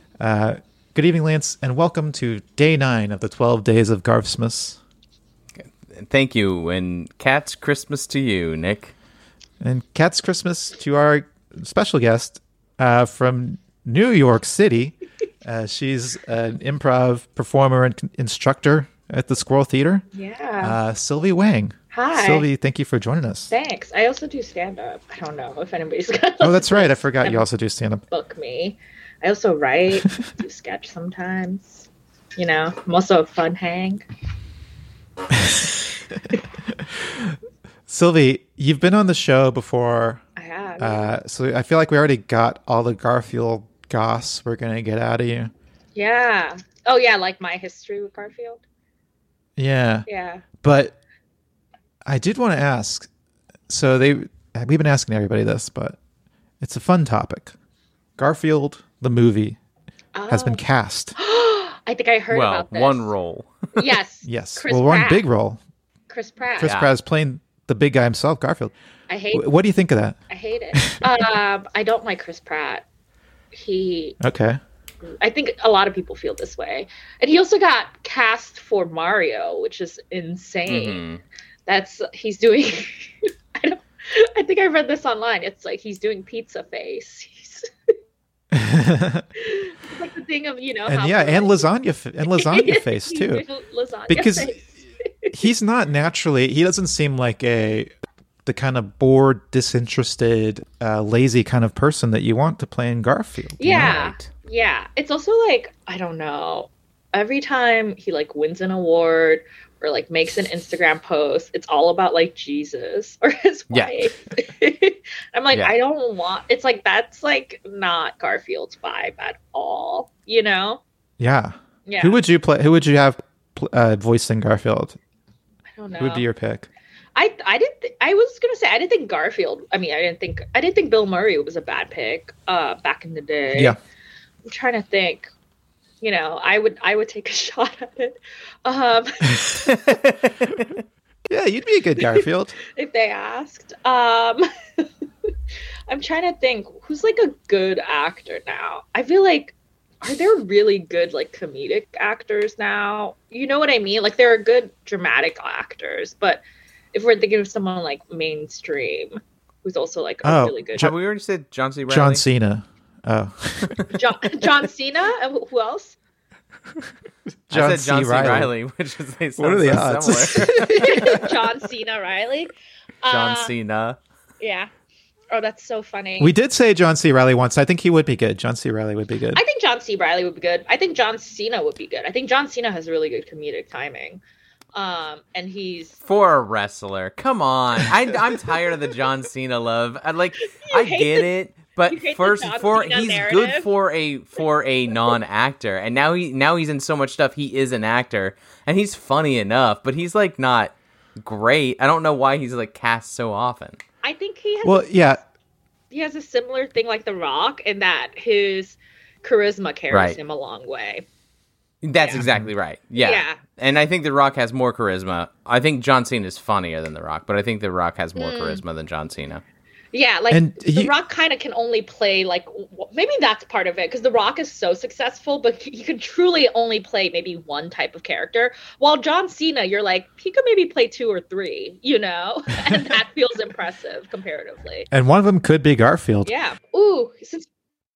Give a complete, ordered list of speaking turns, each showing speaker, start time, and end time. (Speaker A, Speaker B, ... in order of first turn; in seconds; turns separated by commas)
Speaker A: 0.2-4.8, Speaker B: 5.6-8.9, Speaker A: 9.6-20.0, Speaker C: 20.1-20.8, Speaker A: 20.6-23.5, Speaker C: 21.9-22.5, Speaker C: 23.5-27.5, Speaker A: 26.4-28.0, Speaker C: 28.1-34.0, Speaker A: 35.3-35.8, Speaker A: 36.7-40.2, Speaker C: 40.4-41.1, Speaker A: 40.8-45.5, Speaker C: 46.0-48.6, Speaker A: 49.6-50.1, Speaker C: 50.1-50.5, Speaker A: 50.6-51.0, Speaker A: 52.1-53.1, Speaker A: 53.7-56.0, Speaker A: 56.6-57.5, Speaker A: 58.2-59.6, Speaker C: 60.1-60.6, Speaker A: 60.3-61.1, Speaker C: 61.2-63.1, Speaker B: 62.3-64.0, Speaker C: 63.8-65.3, Speaker A: 64.2-65.6, Speaker C: 66.1-66.8, Speaker A: 66.6-68.7, Speaker B: 66.6-66.9, Speaker C: 69.1-69.5, Speaker A: 69.3-70.2, Speaker C: 70.3-72.8, Speaker C: 73.5-74.2, Speaker A: 74.2-74.6, Speaker C: 75.0-81.0, Speaker B: 80.7-81.2, Speaker C: 81.7-87.7, Speaker A: 88.5-89.2, Speaker C: 89.4-91.7, Speaker A: 90.9-93.5, Speaker C: 92.3-95.3, Speaker A: 94.1-94.6, Speaker A: 95.3-97.9, Speaker A: 98.5-104.0, Speaker C: 103.6-120.8, Speaker B: 103.7-104.3, Speaker B: 113.7-114.1, Speaker A: 121.2-125.0, Speaker C: 121.9-122.2, Speaker C: 125.7-126.3, Speaker A: 126.0-126.7, Speaker C: 127.2-133.8, Speaker C: 134.5-135.3, Speaker C: 136.0-139.5, Speaker B: 139.7-140.7, Speaker A: 141.3-142.6, Speaker C: 142.7-144.8, Speaker C: 145.9-160.9, Speaker A: 160.2-161.0, Speaker B: 160.8-162.2, Speaker A: 161.9-163.8, Speaker C: 163.9-166.0, Speaker A: 167.5-168.5, Speaker B: 167.5-171.3, Speaker A: 169.4-171.3, Speaker C: 170.7-173.6, Speaker B: 173.1-174.0, Speaker C: 174.4-174.7, Speaker C: 175.3-176.3, Speaker A: 176.2-179.4, Speaker C: 179.3-184.2, Speaker C: 184.7-186.0, Speaker B: 186.0-203.8, Speaker C: 190.5-191.3, Speaker C: 191.9-193.7, Speaker C: 204.0-205.2, Speaker A: 204.6-205.2, Speaker C: 205.9-211.1, Speaker B: 209.9-210.2, Speaker B: 211.8-219.4, Speaker C: 212.0-212.2, Speaker A: 212.1-212.5, Speaker C: 213.0-213.4, Speaker C: 218.2-218.6, Speaker C: 219.9-234.9, Speaker A: 220.3-220.9, Speaker A: 234.9-236.3, Speaker C: 236.2-237.5